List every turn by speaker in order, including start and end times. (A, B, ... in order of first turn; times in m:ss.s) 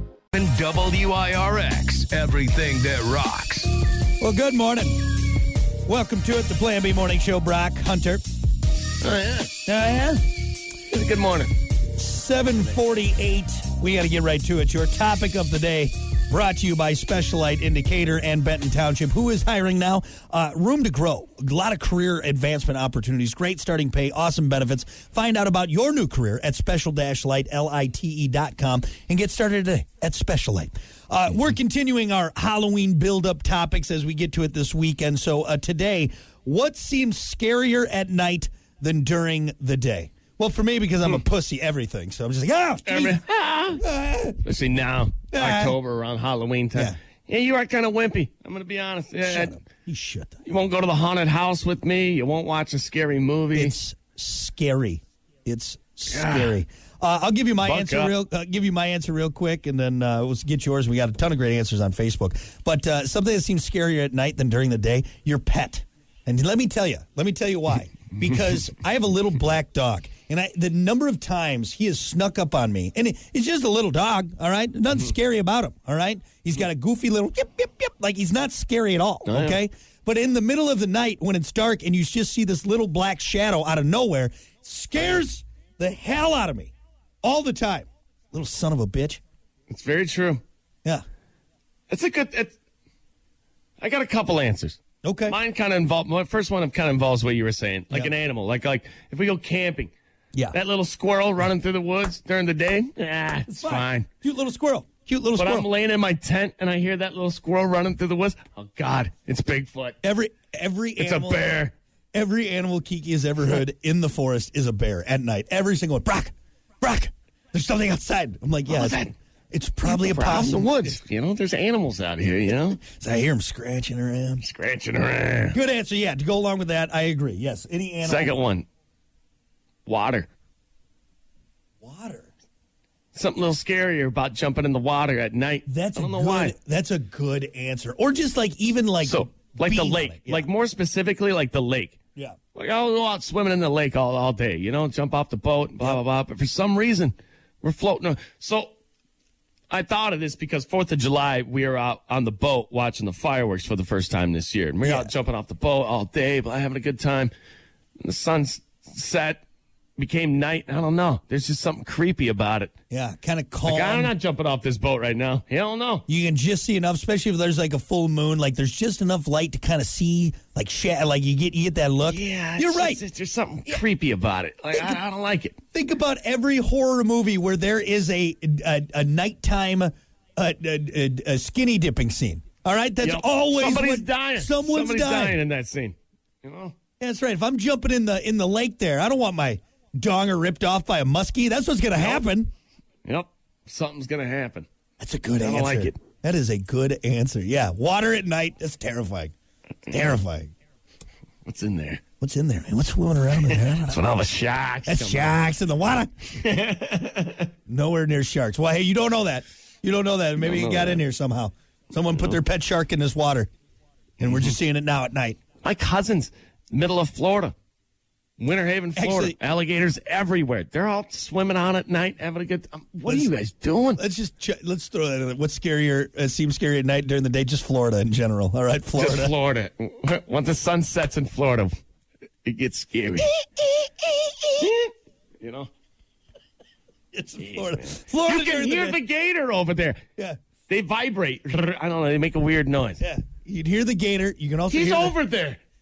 0:00.3-0:03.7 A
0:04.2-0:05.1 B
0:05.9-0:08.2 B
0:09.0-0:09.6 C
0:09.7-0:10.2 B
0:10.9-0:11.5 C
0:12.0-0:43.2 B
0:42.9-0:43.8 C
0:43.8-0:44.4 B
0:44.4-0:49.6 C
0:45.3-0:45.8 B
0:49.2-0:50.4 B
0:50.4-0:53.8 C
0:53.6-1:29.2 B
0:56.1-0:56.6 C
0:57.6-0:58.1 C
1:19.3-1:19.6 C
1:29.7-1:30.4 C
1:31.9-1:32.6 C
1:33.8-1:39.9 C
1:35.0-1:35.4 B
1:40.5-1:44.1 C
1:43.5-1:45.7 B
1:45.4-1:50.0 C
1:50.0-1:51.6 B
1:51.0-1:51.7 C
1:52.1-1:59.0 B
1:58.7-1:59.1 C
1:59.5-2:01.0 B
1:59.8-2:02.8 C
2:02.8-2:04.4 B
2:04.4-2:05.6 C
2:05.5-2:08.3 B
2:08.0-2:08.7 C
2:09.9-2:10.3 C
2:11.8-2:12.3 B
2:13.1-2:16.6 C
2:15.7-2:20.5 B
2:19.0-2:22.0 C
2:22.6-2:28.7 C
2:29.7-2:37.3 C
2:34.8-2:35.1 B
2:38.0-2:39.4 C
2:40.0-2:42.7 C
2:42.9-2:44.1 B
2:43.6-2:46.1 C
2:46.1-2:53.0 B
2:52.0-2:55.6 C
2:55.7-3:05.4 B
3:03.0-3:06.8 C
3:07.0-3:12.5 B
3:12.0-3:12.3 C
3:13.0-3:14.7 C
3:15.0-3:19.3 B
3:15.4-3:16.0 C
3:19.9-3:20.5 B
3:21.4-3:22.0 C
3:22.2-3:24.0 B
3:23.4-3:25.4 C
3:24.9-3:26.1 B
3:26.4-3:27.5 C
3:27.7-3:33.5 B
3:30.4-3:31.0 C
3:34.2-3:35.4 B
3:34.3-3:34.6 C
3:35.6-3:37.5 C
3:38.4-3:44.0 C
3:39.0-3:39.4 B
3:43.1-3:43.3 B
3:44.0-3:49.3 B
3:49.0-3:51.8 C
3:52.4-3:53.3 C
3:53.2-3:54.5 B
3:54.6-3:55.7 C
3:57.1-3:59.0 B
3:57.4-4:00.0 C
4:00.7-4:03.0 C
4:03.0-4:05.2 B
4:04.7-4:05.6 C